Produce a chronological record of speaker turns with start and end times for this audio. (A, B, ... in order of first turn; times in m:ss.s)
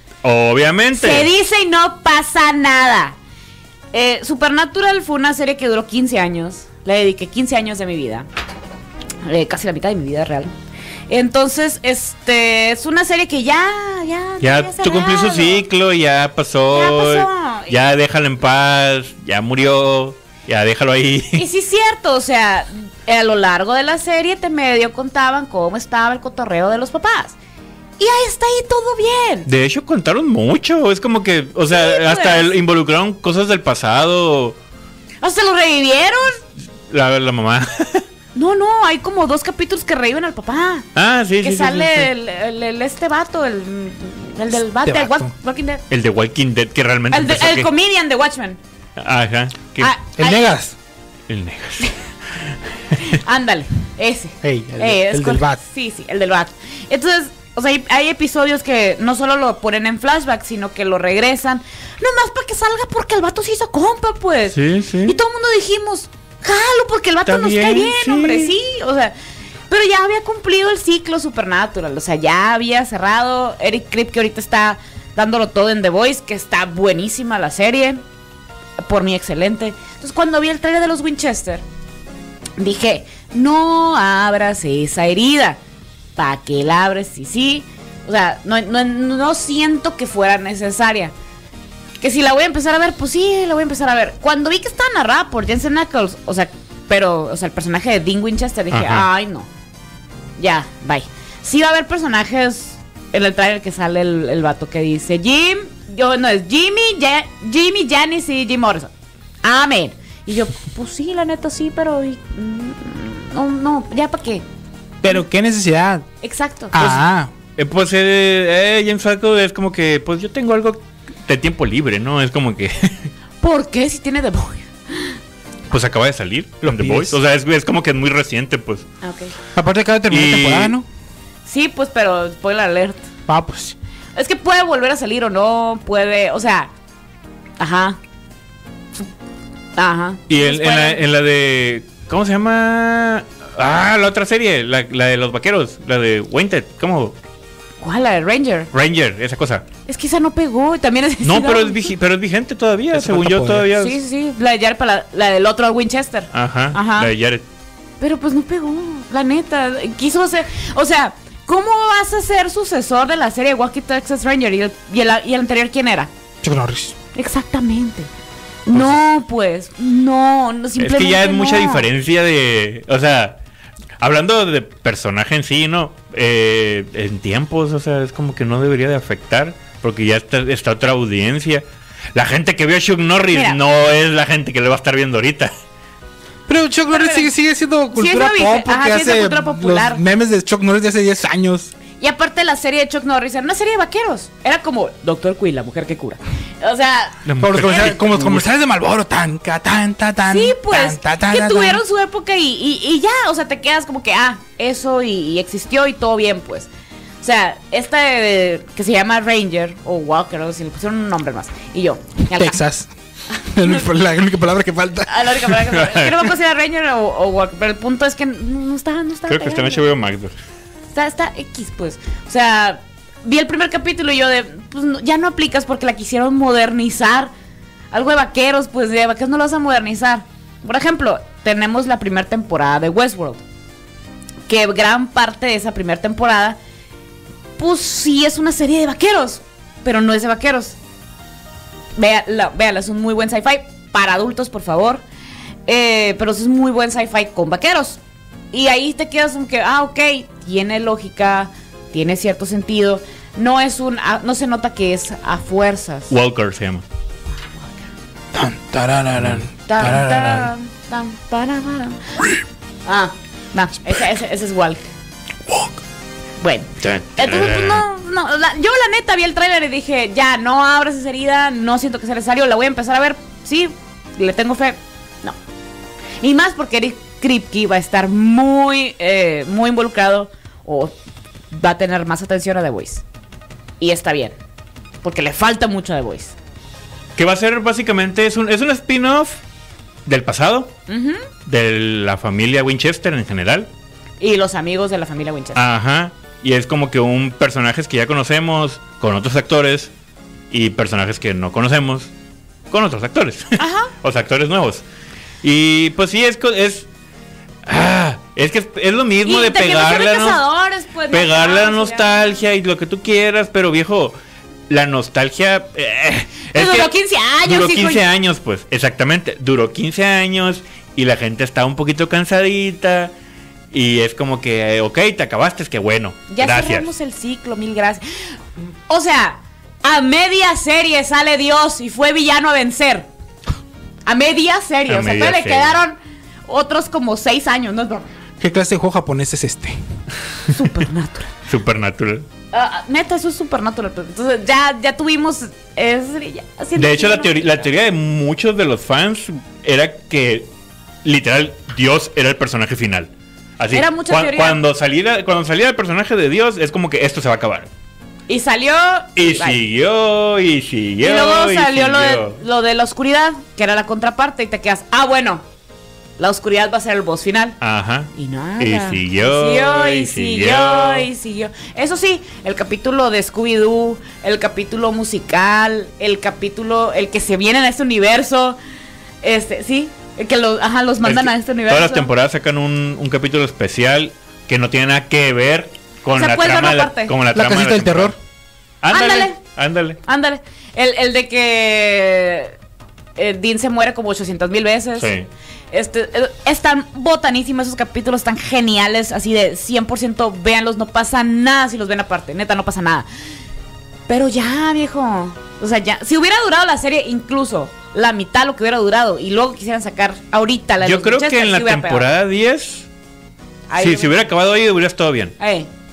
0:00.2-0:01.3 A
0:00.9-0:03.2 B
0:03.9-0:08.3 B
0:09.2-0:10.5 B
0:11.1-0:15.7 B
0:14.4-0:21.4 A
0:16.7-0:17.8 B
0:21.3-0:27.4 B
0:28.0-0:29.5 B
0:29.5-0:34.6 A
0:31.7-0:32.5 B
0:35.2-0:36.4 B
0:36.9-0:38.1 A
0:38.4-0:40.9 B
0:41.0-0:42.1 A
0:41.4-0:45.8 B
0:44.8-0:45.3 C
0:45.9-0:47.7 A
0:47.1-0:48.6 B
0:49.0-0:49.9 A
0:49.8-0:50.6 B
0:50.2-0:50.8 C
0:51.3-0:51.9 A
0:53.0-1:09.1 B
0:54.4-0:55.6 C
1:04.5-1:05.2 A
1:07.3-1:08.5 A
1:09.7-1:18.0 B
1:18.8-1:21.6 B
1:22.6-1:25.6 B
1:26.2-1:31.1 B
1:32.0-1:39.5 B
1:38.7-1:39.1 A
1:40.4-1:48.9 B
1:49.4-1:54.4 B
1:55.0-1:56.1 C
1:56.2-1:57.0 B
1:56.7-1:57.3 C
1:57.6-2:03.1 A
2:03.4-2:05.2 B
2:05.7-2:08.8 A
2:06.6-2:07.2 C
2:09.0-2:09.3 B
2:09.6-2:10.9 C
2:10.1-2:10.8 A
2:11.4-2:13.1 B
2:13.3-2:13.8 C
2:14.2-2:16.7 B
2:17.6-2:18.0 B
2:19.8-2:21.0 B
2:20.3-2:27.2 A
2:27.8-2:28.7 B
2:28.7-2:29.6 A
2:29.9-2:31.9 B
2:31.2-2:34.0 A
2:32.9-2:33.7 C
2:33.7-2:37.1 B
2:36.3-2:37.4 A
2:38.0-2:46.1 B
2:46.4-2:47.0 C
2:47.2-2:48.1 B
2:48.7-2:51.9 B
2:48.7-2:49.0 A
2:50.8-2:53.4 A
2:54.0-3:05.5 A
3:03.3-3:03.6 B
3:06.5-3:11.7 C
3:06.9-3:07.3 B
3:07.9-3:10.0 B
3:12.0-3:18.0 B
3:17.2-3:18.4 A
3:17.4-3:21.8 C
3:20.2-3:26.7 B
3:27.2-3:32.6 B
3:32.4-3:32.9 C
3:33.4-3:35.3 C
3:33.6-3:33.8 B
3:35.1-3:39.8 B
3:35.7-3:36.3 A
3:39.3-3:40.4 A
3:40.9-3:47.3 B
3:47.9-3:53.4 B
3:54.5-3:56.6 B
3:57.6-4:00.8 B
4:02.0-4:05.0 B
4:05.7-4:08.0 B
4:08.5-4:16.1 B
4:16.1-4:16.8 A
4:18.3-4:20.5 C
4:19.2-4:20.5 A
4:19.7-4:22.0 B
4:22.9-4:24.8 B
4:25.5-4:25.8 C
4:26.4-4:35.4 B
4:26.8-4:27.8 A
4:36.2-4:40.9 B
4:41.5-4:43.0 B
4:43.8-4:44.4 B
4:45.0-4:46.4 B
4:47.2-4:49.4 A
4:50.1-4:50.7 A
4:50.9-4:51.3 B
4:51.5-4:53.7 A
4:54.2-4:55.6 B
4:55.6-4:59.9 A
5:00.5-5:02.1 A
5:02.7-5:04.8 A
5:03.6-5:03.9 B
5:05.4-5:06.9 A
5:07.7-5:10.4 A
5:09.2-5:12.4 B
5:11.1-5:14.2 A
5:14.7-5:23.1 A
5:16.5-5:18.0 B
5:23.7-5:26.9 A
5:26.3-5:28.3 B
5:28.9-5:33.1 B
5:34.1-5:38.1 B
5:34.9-5:35.8 A
5:38.4-5:39.8 C
5:40.5-5:41.3 B
5:41.5-5:42.3 A
5:42.5-5:47.6 B
5:46.8-5:50.5 A
5:51.0-5:57.7 A
5:53.7-5:54.6 B
5:58.3-5:59.6 B
5:59.2-6:02.4 A
6:01.0-6:05.4 B
6:06.2-6:07.6 B
6:07.6-6:11.1 A
6:08.1-6:18.6 B
6:19.2-6:22.1 B
6:21.0-6:28.1 A
6:26.2-6:27.1 B
6:27.3-6:28.2 C
6:28.8-6:30.0 A
6:28.9-6:29.4 B
6:30.1-6:32.6 B
6:33.2-6:35.1 B
6:35.0-6:35.3 A
6:35.7-6:43.1 B
6:44.1-6:52.1 B
6:50.8-6:52.9 A
6:53.7-6:54.2 B
6:53.8-6:55.4 A
6:55.4-6:55.7 B